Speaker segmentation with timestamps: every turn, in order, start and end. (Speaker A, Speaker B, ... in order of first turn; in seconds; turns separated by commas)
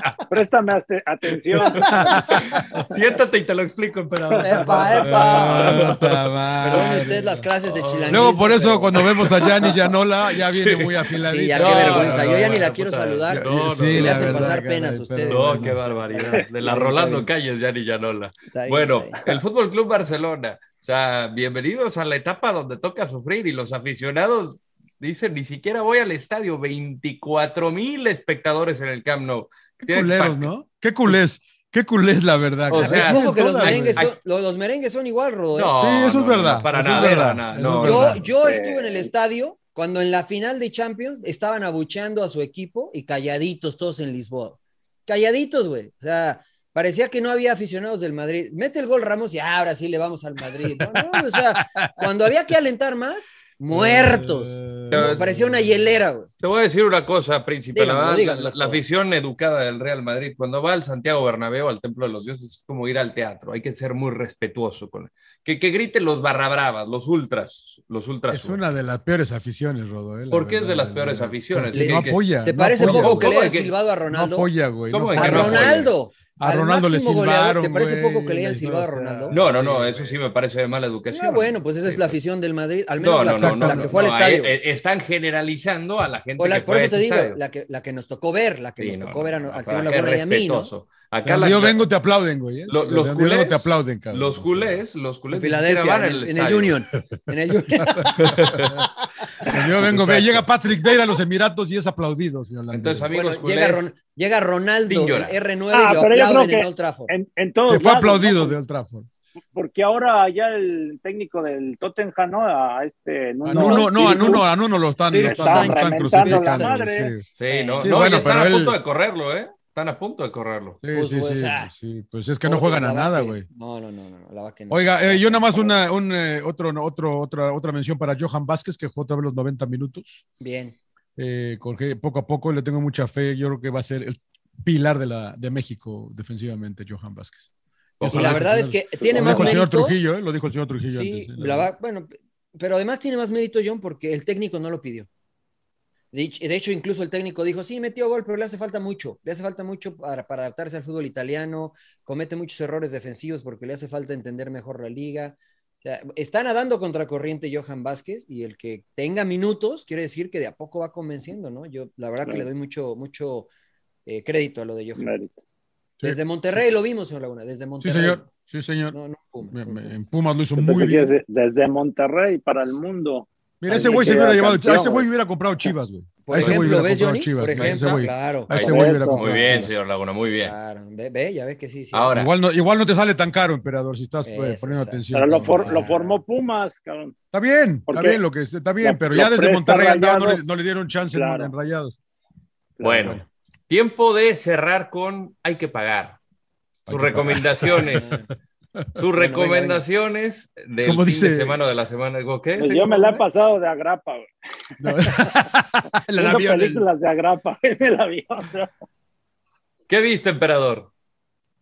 Speaker A: 0.3-1.9, Speaker B: 1.8-6.2, Speaker C: 1.8-2.8, Speaker D: 4.4-5.9, Speaker C: 4.5-7.5, Speaker D: 6.6-9.5, Speaker B: 7.6-8.4, Speaker C: 8.1-12.6, Speaker B: 9.0-9.8, Speaker B: 10.3-14.6, Speaker D: 11.2-17.3, Speaker C: 13.3-16.0, Speaker B: 15.3-30.5, Speaker D: 18.5-19.2, Speaker C: 29.8-34.1, Speaker B: 32.7-34.2, Speaker D: 32.7-35.8, Speaker B: 35.5-38.2, Speaker C: 35.8-38.2, Speaker D: 36.9-56.3, Speaker A: 38.4-39.1, Speaker C: 50.6-52.3, Speaker C: 53.7-56.0, Speaker B: 54.9-55.2, Speaker B: 56.4-68.6, Speaker D: 57.7-58.8, Speaker C: 68.3-73.4, Speaker B: 70.3-72.2, Speaker D: 71.7-74.5, Speaker B: 72.8-73.7, Speaker C: 74.1-80.2, Speaker B: 74.9-75.9, Speaker D: 75.2-79.4, Speaker B: 79.3-82.2, Speaker D: 81.1-84.5, Speaker B: 83.0-87.4, Speaker C: 83.3-84.0, Speaker D: 86.4-90.7, Speaker B: 88.8-91.9, Speaker C: 91.2-94.8, Speaker B: 92.7-97.0, Speaker D: 95.3-98.6, Speaker C: 97.8-98.9, Speaker B: 98.2-98.8, Speaker D: 99.2-99.5, Speaker C: 99.4-103.1, Speaker B: 99.5-100.4, Speaker B: 102.7-103.9, Speaker D: 103.1-107.1, Speaker B: 104.9-105.4, Speaker A: 105.7-108.5, Speaker C: 107.7-109.1, Speaker A: 109.5-114.5, Speaker C: 113.5-117.3, Speaker D: 113.5-114.5, Speaker D: 115.1-116.8, Speaker A: 115.1-117.1, Speaker B: 117.4-120.8, Speaker D: 117.5-118.2, Speaker C: 117.8-118.8, Speaker C: 120.8-123.5, Speaker D: 120.9-121.7, Speaker D: 122.5-125.8, Speaker C: 124.7-130.2, Speaker D: 130.4-130.8, Speaker C: 131.2-137.5, Speaker B: 138.0-138.5, Speaker C: 138.0-141.7, Speaker D: 138.1-140.0, Speaker A: 139.0-139.6, Speaker D: 140.9-145.1, Speaker D: 146.1-163.5, Speaker D: 164.1-165.1, Speaker A: 165.0-165.3, Speaker C: 166.0-166.6, Speaker D: 166.0-168.3, Speaker C: 167.8-171.1, Speaker D: 168.9-170.0, Speaker A: 170.6-175.1, Speaker C: 173.6-179.8, Speaker D: 173.7-174.4, Speaker D: 176.2-179.8, Speaker B: 176.3-176.7, Speaker B: 177.6-180.6, Speaker A: 178.6-179.2, Speaker D: 180.4-182.2, Speaker B: 181.9-182.3, Speaker C: 182.1-185.9, Speaker D: 184.2-186.2, Speaker A: 185.1-187.2, Speaker C: 187.3-192.0, Speaker A: 187.9-188.2, Speaker A: 188.8-190.5, Speaker A: 191.1-191.5, Speaker A: 192.8-193.2, Speaker B: 192.8-196.2, Speaker C: 192.8-193.2, Speaker B: 196.9-198.2, Speaker C: 196.9-198.2, Speaker D: 197.9-198.3, Speaker B: 198.9-203.2, Speaker D: 199.2-199.8, Speaker C: 200.8-201.6, Speaker A: 202.6-204.2, Speaker C: 204.8-206.8, Speaker A: 204.9-205.5, Speaker A: 206.2-208.7, Speaker B: 209.9-210.9